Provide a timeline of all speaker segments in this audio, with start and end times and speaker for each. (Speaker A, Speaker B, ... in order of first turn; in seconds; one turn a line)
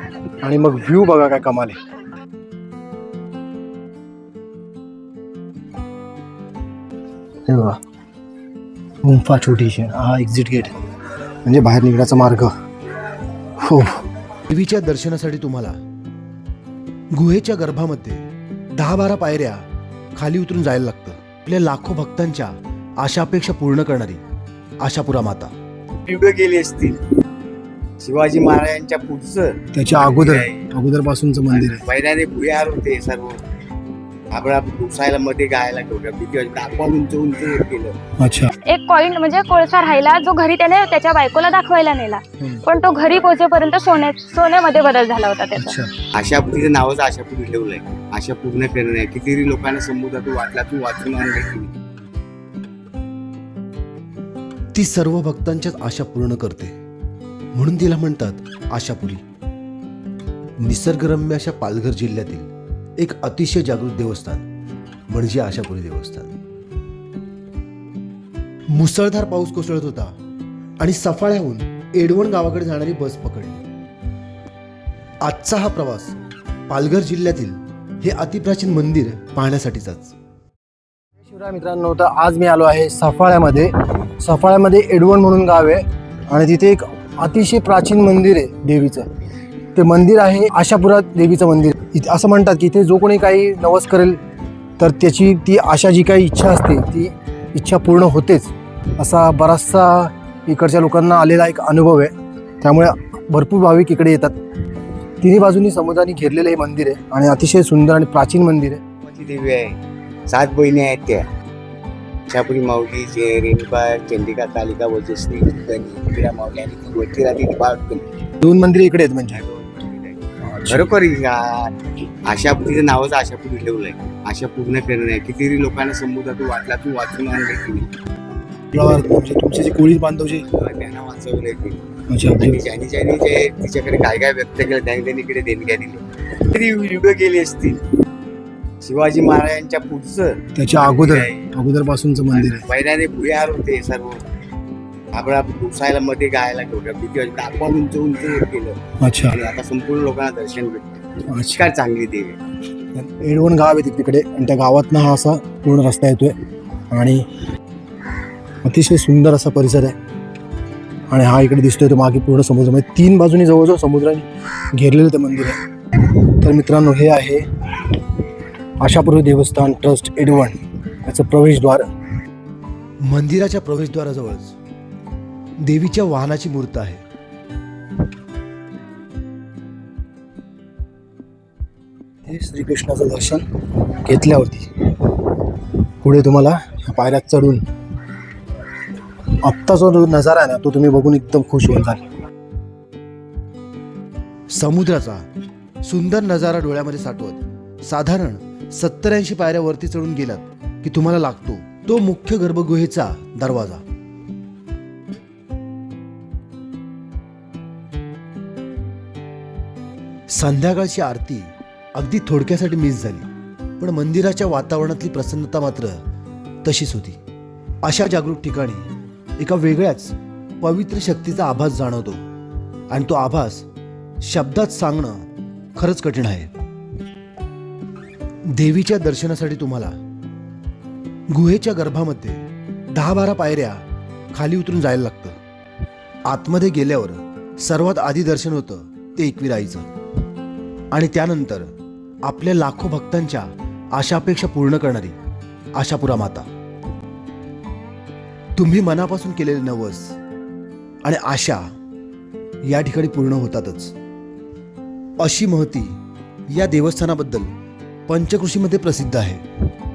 Speaker A: 0.4-1.8
Speaker A: 7.5-7.8
Speaker A: 9.0-10.8
Speaker A: 11.4-12.5
Speaker A: 13.6-14.1
Speaker B: 14.5-15.8
Speaker B: 17.1-19.6
Speaker B: 20.1-24.2
Speaker B: 24.8-25.5
Speaker C: 26.0-27.0
Speaker C: 28.0-30.7
Speaker A: 29.7-31.8
Speaker C: 31.5-33.4
Speaker C: 34.3-38.0
Speaker A: 38.2-38.5
Speaker D: 38.6-45.8
Speaker A: 42.4-42.6
Speaker A: 45.6-45.9
Speaker C: 46.1-51.7
Speaker B: 54.7-56.7
Speaker B: 57.5-59.2
Speaker B: 60.6-64.4
Speaker B: 65.1-66.3
Speaker B: 68.7-70.1
Speaker B: 70.8-73.6
Speaker B: 75.2-76.2
Speaker B: 76.7-80.1
Speaker A: 81.2-89.1
Speaker A: 89.7-94.2
Speaker A: 94.8-104.4
Speaker A: 105.2-108.8
Speaker C: 109.0-111.2
Speaker C: 112.3-118.0
Speaker A: 118.4-119.4
Speaker C: 119.3-127.9
Speaker A: 120.4-121.0
Speaker A: 128.7-130.4
Speaker C: 130.5-131.8
Speaker A: 132.1-132.6
Speaker C: 132.3-137.8
Speaker C: 138.8-141.5
Speaker A: 140.5-142.7
Speaker C: 142.3-144.2
Speaker C: 145.1-152.4
Speaker A: 149.0-149.3
Speaker A: 151.3-151.6
Speaker A: 152.9-156.3
Speaker A: 156.9-157.2
Speaker A: 158.6-160.0
Speaker A: 161.1-165.6
Speaker A: 166.3-167.5
Speaker A: 168.8-171.9
Speaker B: 173.0-174.5
Speaker B: 175.6-177.0
Speaker A: 182.2-184.7
Speaker A: 186.0-187.6
Speaker A: 189.4-192.0
Speaker B: 194.5-195.2
Speaker B: 195.8-203.8
Speaker B: 210.3-213.3
Speaker B: 213.8-216.0
Speaker B: 216.6-217.2
Speaker B: 217.8-222.2
Speaker B: 222.9-223.7
Speaker B: 224.2-226.5
Speaker B: 228.5-229.9
Speaker B: 231.3-235.4
Speaker B: 236.3-239.9
Speaker B: 240.9-241.7
Speaker B: 242.2-245.2
Speaker B: 245.8-246.4
Speaker B: 248.6-250.1
Speaker B: 251.0-251.7
Speaker B: 252.6-253.9
Speaker B: 255.2-257.5
Speaker B: 258.1-259.4